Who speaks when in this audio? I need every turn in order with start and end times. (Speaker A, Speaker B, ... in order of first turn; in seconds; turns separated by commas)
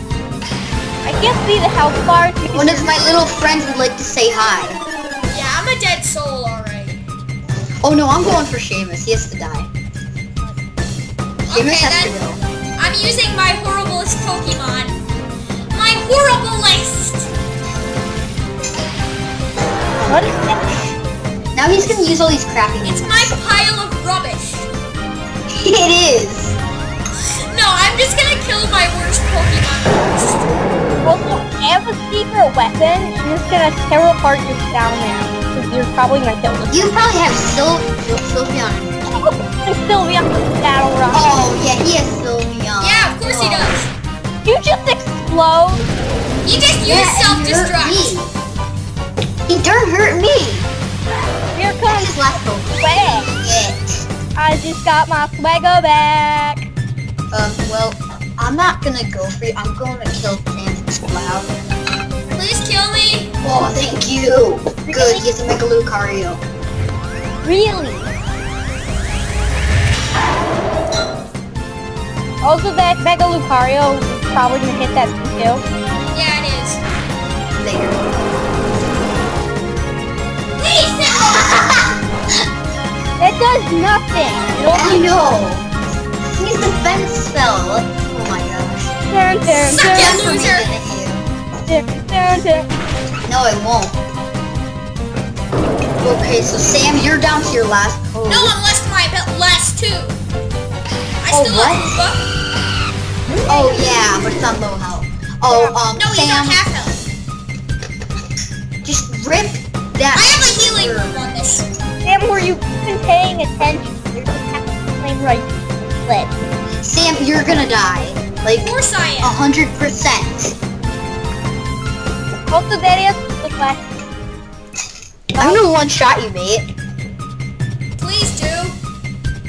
Speaker A: 1.0-3.0, Speaker B: 2.5-4.8, Speaker C: 5.3-7.0, Speaker B: 7.8-9.7, Speaker B: 11.4-12.4, Speaker C: 11.5-12.2, Speaker C: 12.8-15.0, Speaker C: 15.7-17.3, Speaker B: 20.0-20.9, Speaker A: 20.1-20.6, Speaker B: 21.6-23.3, Speaker C: 21.8-22.1, Speaker C: 22.8-24.7, Speaker B: 25.5-26.6, Speaker C: 27.2-30.7, Speaker A: 31.0-36.9, Speaker B: 36.7-39.2, Speaker A: 39.1-41.4, Speaker B: 41.1-43.8, Speaker C: 42.8-43.9, Speaker A: 44.4-45.8, Speaker C: 46.4-48.2, Speaker B: 46.8-48.3, Speaker B: 49.5-50.7, Speaker A: 51.5-53.3, Speaker B: 51.9-54.1, Speaker A: 54.4-56.7, Speaker B: 57.3-61.5, Speaker C: 62.3-63.3, Speaker B: 63.4-66.4, Speaker A: 64.9-65.2, Speaker A: 67.4-68.1, Speaker A: 72.4-75.6, Speaker C: 76.1-76.8, Speaker B: 77.6-78.0, Speaker C: 80.6-81.6, Speaker B: 81.1-82.0, Speaker A: 83.2-85.1, Speaker B: 84.7-85.7, Speaker B: 86.3-88.9, Speaker A: 89.1-90.2, Speaker B: 89.5-91.2, Speaker C: 89.6-90.7, Speaker A: 91.7-92.7, Speaker B: 93.2-94.0, Speaker B: 96.0-98.5, Speaker C: 98.3-100.2, Speaker C: 101.2-102.2, Speaker B: 101.3-102.0, Speaker B: 103.5-106.6, Speaker A: 105.5-105.8, Speaker C: 105.9-107.0, Speaker B: 108.8-111.2, Speaker C: 110.1-111.7, Speaker A: 112.0-116.3, Speaker B: 116.8-120.6, Speaker C: 118.6-119.4, Speaker A: 122.5-123.8, Speaker A: 125.3-125.7, Speaker B: 125.4-126.7, Speaker C: 128.0-128.8